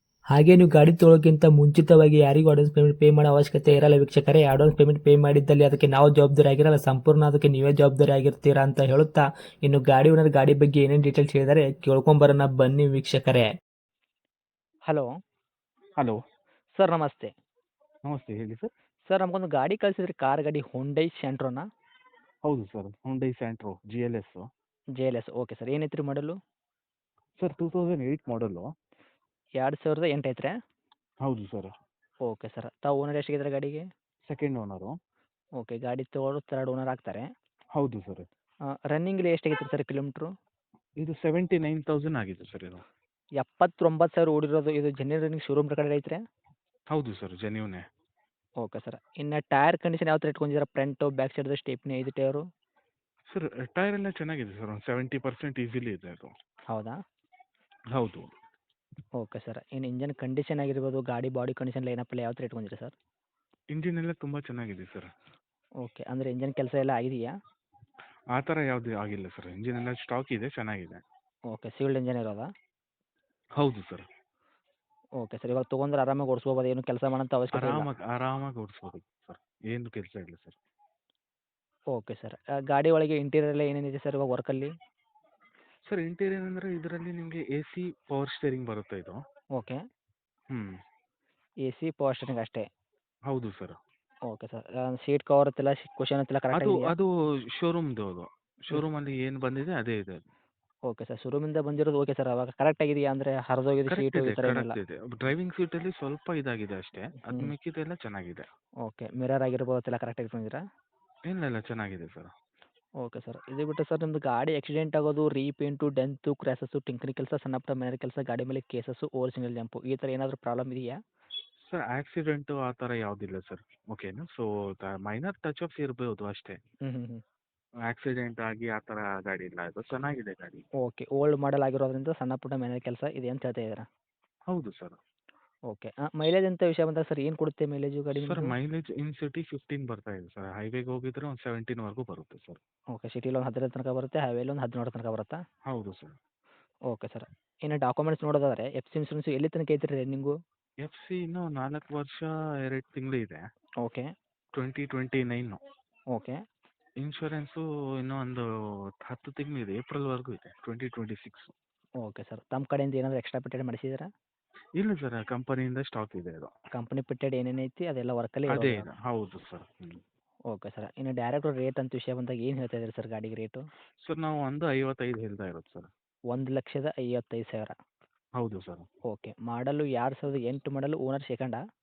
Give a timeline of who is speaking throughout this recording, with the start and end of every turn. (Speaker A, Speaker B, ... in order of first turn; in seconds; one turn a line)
Speaker A: 0.3-13.5
Speaker B: 16.7-17.3
Speaker C: 18.1-18.7
Speaker B: 19.1-21.6
Speaker C: 22.4-24.5
Speaker B: 25.0-26.3
Speaker C: 27.4-28.7
Speaker B: 29.6-30.5
Speaker C: 31.2-31.7
Speaker B: 32.3-33.8
Speaker C: 34.3-34.9
Speaker B: 35.6-37.2
Speaker C: 37.8-38.3
Speaker B: 38.9-40.3
Speaker C: 41.0-42.8
Speaker B: 43.4-46.2
Speaker C: 46.9-47.8
Speaker B: 48.6-52.4
Speaker C: 53.3-56.3
Speaker C: 57.9-58.3
Speaker B: 59.2-62.9
Speaker C: 63.7-65.1
Speaker B: 65.8-67.3
Speaker C: 68.3-71.0
Speaker B: 71.5-72.5
Speaker C: 73.6-74.0
Speaker B: 75.2-77.9
Speaker C: 77.5-80.6
Speaker B: 81.9-84.7
Speaker C: 85.9-89.2
Speaker C: 90.5-90.8
Speaker B: 91.7-92.6
Speaker C: 93.3-93.8
Speaker B: 94.3-96.9
Speaker C: 96.5-100.2
Speaker B: 100.9-104.8
Speaker C: 103.9-108.5
Speaker B: 108.8-110.6
Speaker C: 111.3-112.3
Speaker B: 113.0-120.9
Speaker C: 121.5-126.6
Speaker B: 126.8-127.2
Speaker C: 127.8-130.6
Speaker B: 130.8-133.8
Speaker C: 134.5-135.0
Speaker B: 135.7-138.5
Speaker C: 138.1-142.6
Speaker B: 142.9-145.4
Speaker C: 145.7-146.2
Speaker B: 146.9-150.3
Speaker C: 150.8-153.4
Speaker B: 153.8-154.1
Speaker C: 154.5-155.6
Speaker C: 157.0-158.4
Speaker C: 159.0-161.5
Speaker B: 162.0-164.1
Speaker C: 164.8-166.5
Speaker B: 166.7-168.8
Speaker C: 168.5-170.0
Speaker B: 170.5-173.6
Speaker C: 174.0-175.9
Speaker B: 176.3-177.7
Speaker C: 178.4-178.9
Speaker B: 179.1-181.6